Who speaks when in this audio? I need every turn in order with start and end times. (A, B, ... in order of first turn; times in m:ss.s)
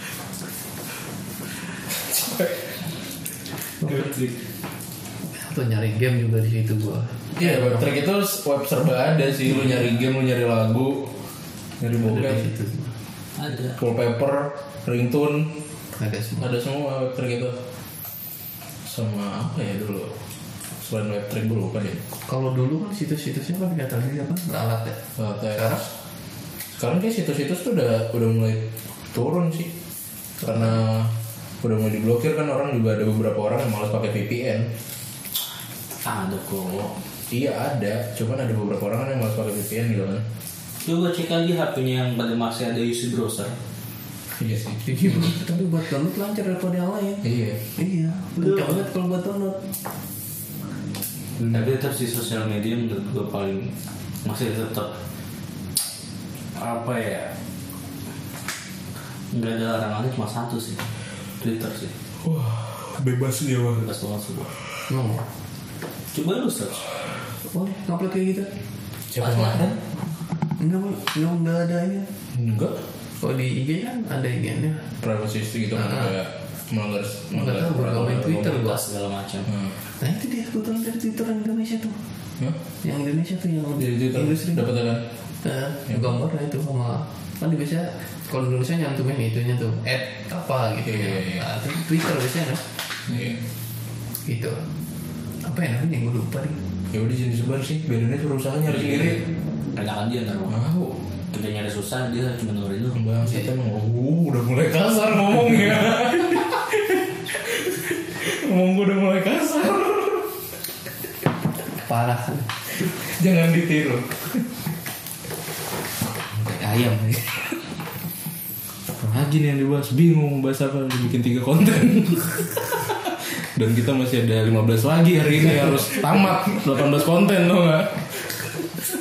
0:01.9-0:02.6 A
0:03.9-0:04.3 B
0:05.3-0:07.9 C
0:07.4-0:11.1 A
0:11.8-0:12.5 A
0:12.0-0:12.9 C
0:13.4-0:13.8 B
0:13.7-0:15.6 A
0:16.0-0:16.5 C
0:16.4-0:17.6 A
0:18.8-0:20.2 A
0:20.8-0:22.0 A
0:22.3-0:25.0 C
0:25.2-0:25.8 A
0:25.5-0:25.8 C
0:26.8-0:29.7 A
0:30.4-0:34.7 A
0:36.0-0:37.0 B
0:37.3-0:40.2 A
0:40.8-0:43.6 B
0:44.4-0:45.3 A
0:44.8-0:49.6 C
0:47.2-0:47.6 A
0:48.4-0:48.8 B
0:51.4-0:53.7 B
0:54.2-0:55.0 B
0:56.6-0:57.3 B
0:59.3-1:01.9 B
1:02.2-1:03.9 A
1:03.8-1:04.5 B
1:04.9-1:05.2 C
1:06.1-1:06.9 B
1:07.5-1:08.5 C
1:09.1-1:09.8 B
1:09.2-1:09.7 C
1:10.6-1:12.1 C
1:12.3-1:12.8 A
1:13.2-1:14.9 C
1:15.0-1:18.6 A
1:15.8-1:16.1 C
1:17.3-1:18.8 C
1:18.2-1:19.5 B
1:20.0-1:22.0 C
1:22.8-1:24.7 C
1:23.8-1:25.0 A
1:25.4-1:32.6 C
1:30.8-1:31.5 A
1:33.1-1:33.4 A
1:34.2-1:34.6 C
1:35.4-1:36.6 C
1:36.9-1:39.2 A
1:38.7-1:39.2 B
1:39.8-1:40.6 B
1:40.5-1:41.0 A
1:41.3-1:43.0 B
1:42.9-1:50.3 A
1:51.8-1:52.5 C
1:52.8-1:54.5 A
1:56.3-1:57.6 A
1:59.0-2:08.3 A